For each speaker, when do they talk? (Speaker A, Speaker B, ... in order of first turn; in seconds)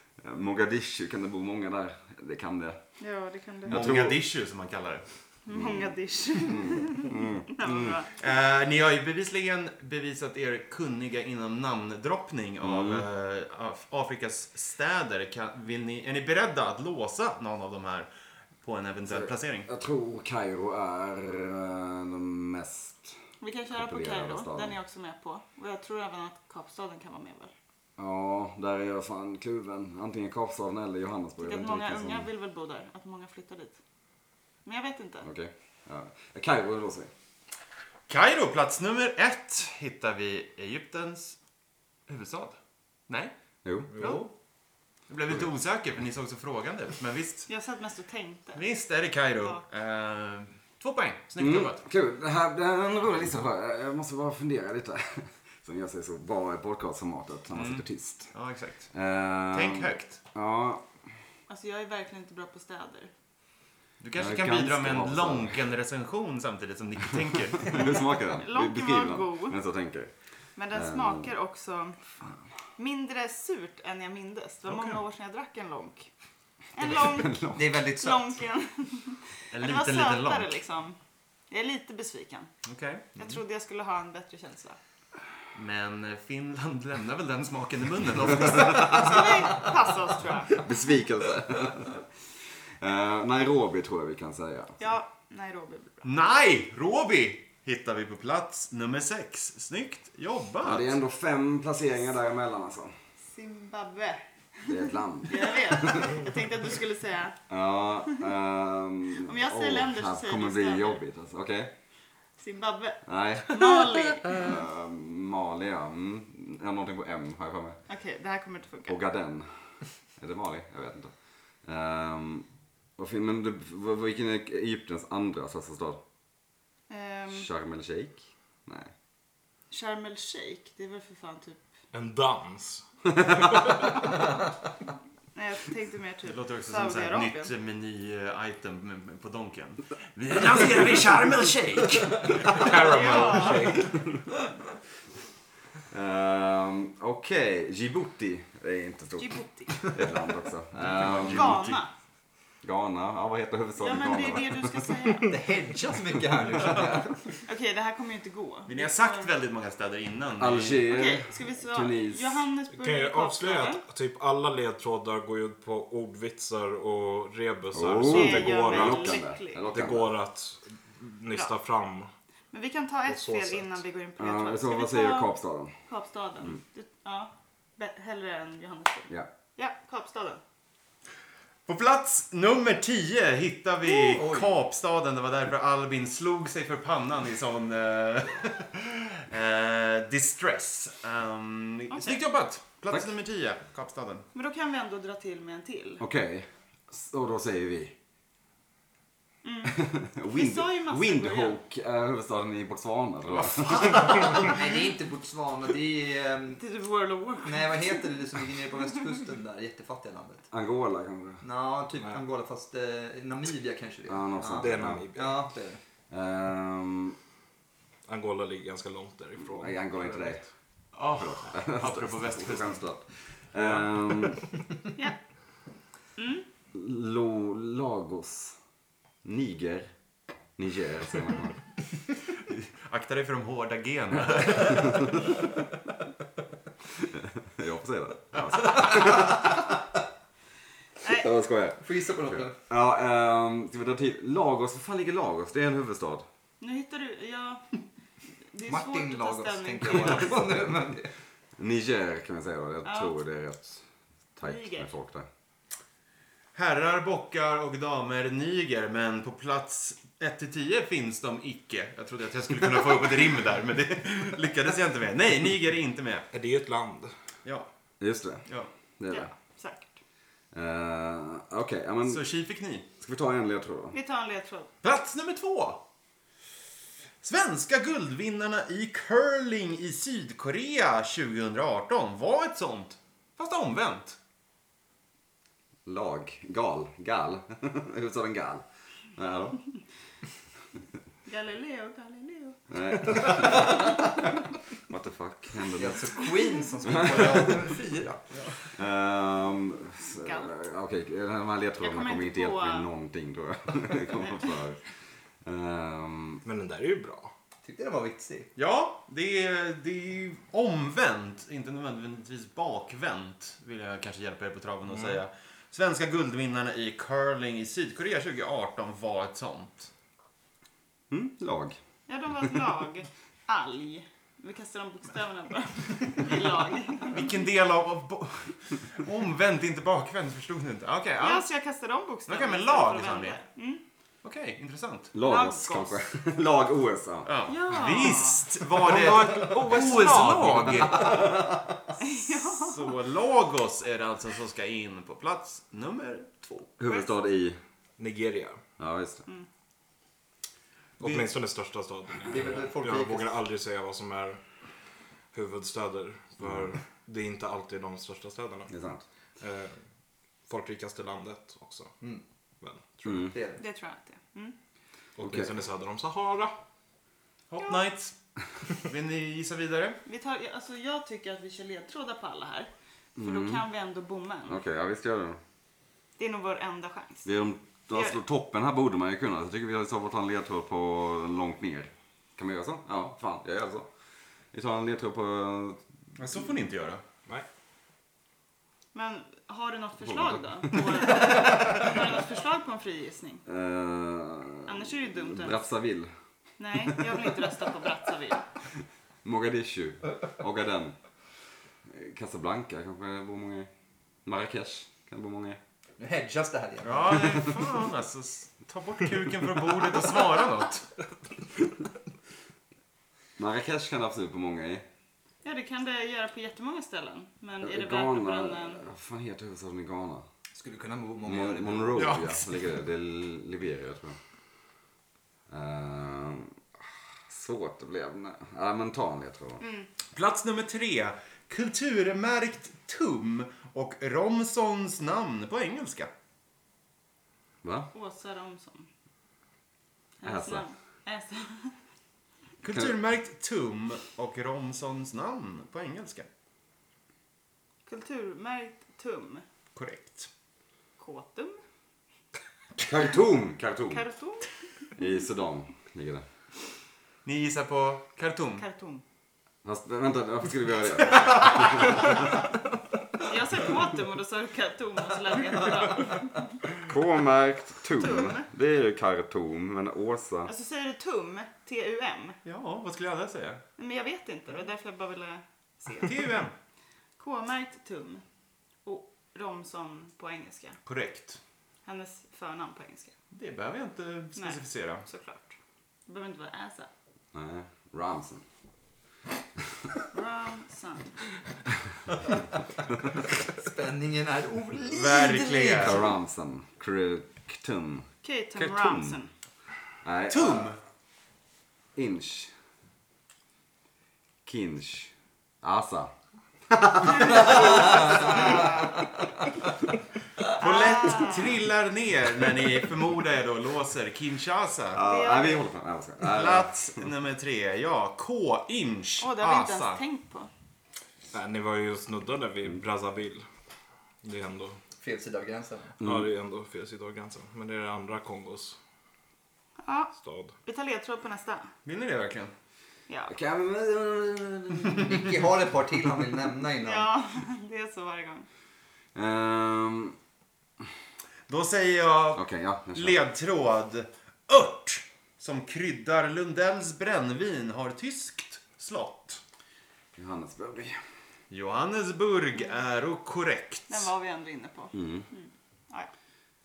Speaker A: 0.2-2.8, 3.6-4.2, 5.5-8.0, 12.6-13.1, 19.1-24.8, 28.0-32.3, 35.2-37.1, 43.6-43.9, 51.4-58.3, 58.9-60.9, 64.2-65.6, 67.6-70.1, 70.7-71.3, 76.8-77.6, 90.6-92.0, 92.8-94.8, 100.6-102.9, 104.7-106.3, 107.5-111.7, 113.0-117.8, 118.9-126.0, 127.3-128.9, 145.9-151.6, 152.6-154.9, 160.4-162.4, 167.7-170.1, 174.2-175.7, 196.0-197.9, 199.7-204.4, 210.5-211.4, 214.1-215.1, 216.1-217.2, 219.4-220.4, 221.2-224.4, 226.7-228.6, 229.2-229.9, 230.6-231.6, 237.0-239.6, 241.0-246.2, 251.6-253.8, 254.3-255.3, 268.0-268.4, 269.0-269.3, 270.5-272.2, 273.0-274.0, 285.9-288.6, 289.1-289.6, 292.7-294.1, 294.9-296.2, 296.8-297.6, 298.6-304.8, 305.4-306.4, 321.1-321.8, 335.1-337.3, 341.0-341.3, 346.8-347.6, 348.8-349.2, 356.4-356.7, 358.7-359.0, 363.0-363.3, 365.2-365.5, 373.1-373.6, 374.5-375.4, 377.2-383.9, 384.5-385.8, 390.0-390.8, 393.4-396.1, 396.9-397.1, 399.2-401.0, 401.8-403.7, 404.2-405.6, 413.4-414.8, 417.6-420.2, 421.2-424.2, 425.5-426.6, 427.3-429.6, 437.6-437.9, 440.2-440.6, 452.8-454.0, 455.0-456.2, 459.6-462.3, 466.8-470.5, 487.3-488.4, 495.8-499.2, 500.0-500.7, 501.9-502.5, 504.4-506.1, 506.7-508.6, 514.9-517.0, 533.3-535.3, 539.1-540.1, 542.3-543.2, 550.1-551.0, 554.9-555.2
Speaker B: 3.0-3.8, 5.5-8.1, 23.4-27.5, 31.4-33.8, 34.6-35.2, 47.5-48.6, 61.5-63.1, 67.8-69.6, 70.5-72.0, 72.8-76.1, 76.7-81.0, 81.5-82.5, 83.2-84.8, 88.7-90.7, 94.8-96.0, 103.3-107.4, 109.2-111.0, 112.4-114.5, 117.9-119.0, 126.9-127.5, 129.7-131.6, 135.3-137.5, 142.8-143.9, 149.2-149.9, 151.2-151.9, 153.8-155.3, 157.4-159.3, 160.9-163.8, 168.0-169.6, 172.5-175.3, 175.9-180.4, 191.9-192.2, 194.3-196.0, 199.4-201.6, 206.6-207.9, 226.2-226.4, 241.0-241.3, 246.6-247.8, 248.5-250.4, 252.8-253.1, 254.4-254.9, 269.1-269.9, 273.9-274.7, 291.2-292.6, 300.2-300.5, 301.8-302.9, 322.1-327.3, 331.2-333.8, 335.2-335.9, 337.5-338.4, 342.0-343.0, 363.6-364.5, 370.1-374.6, 376.2-377.3, 377.9-378.2, 388.9-393.4, 394.6-395.6, 396.6-398.4, 415.4-418.9, 429.6-429.9, 437.9-438.9, 440.2-441.8, 447.9-449.4, 451.0-451.6, 453.9-454.5, 458.6-459.0, 463.2-466.4, 468.0-468.4, 470.4-472.4, 473.8-476.1, 477.2-478.2, 478.8-480.8, 481.8-483.1, 484.4-485.5, 486.1-486.9, 490.1-491.2, 498.2-499.3, 510.6-511.6, 515.0-515.7, 519.2-520.5, 529.8-530.1, 530.6-531.7, 536.8-538.5, 553.9-556.1
Speaker C: 3.7-5.0, 8.2-18.1, 18.6-19.7, 38.1-41.4, 42.1-42.6, 43.1-43.3, 44.0-44.2, 45.1-47.5, 48.5-51.8, 57.5-58.9, 59.5-60.2, 64.0-68.0, 79.5-80.6, 82.6-83.2, 85.5-89.7, 96.0-101.0, 136.2-142.7, 150.8-151.8, 158.7-160.9, 181.7-194.2, 220.9-222.8, 232.8-235.2, 256.5-266.2, 268.4-268.7, 272.1-272.9, 274.8-275.8, 277.2-284.2, 308.6-319.9, 327.0-331.4, 332.3-333.4, 334.2-335.1, 337.2-341.2, 342.3-346.7, 367.5-368.1, 368.7-370.0, 386.2-387.0, 406.8-410.9, 421.9-422.6, 430.1-436.1, 442.6-446.3, 449.7-450.3, 457.2-458.6, 472.4-473.6, 476.0-476.5, 480.9-481.4, 483.3-485.1, 494.9-496.0, 500.3-500.8, 508.1-508.4, 510.5-515.0, 516.2-520.0, 531.8-532.5, 541.5-549.4, 551.5-554.1
Speaker D: 43.9-44.2, 131.9-132.8, 133.3-133.9, 142.4-144.0, 162.7-172.1, 173.1-173.8, 214.5-215.4, 218.1-220.4, 266.3-267.1, 306.4-307.3, 338.8-341.0, 348.0-348.6, 351.0-354.4, 355.3-358.7, 359.4-359.8, 360.4-361.9, 362.6-363.3, 365.2-366.5, 521.3-523.4, 524.2-524.8, 526.0-528.8, 530.1-530.5
Speaker E: 77.5-78.4, 155.3-157.4, 183.9-184.6, 203.7-206.6, 207.4-210.5, 211.4-215.8, 241.8-242.6, 248.7-251.1, 295.8-298.2, 307.6-308.5, 352.2-353.4, 363.3-363.6, 406.0-407.4, 420.5-422.0, 493.4-496.0, 525.0-525.9, 535.0-537.1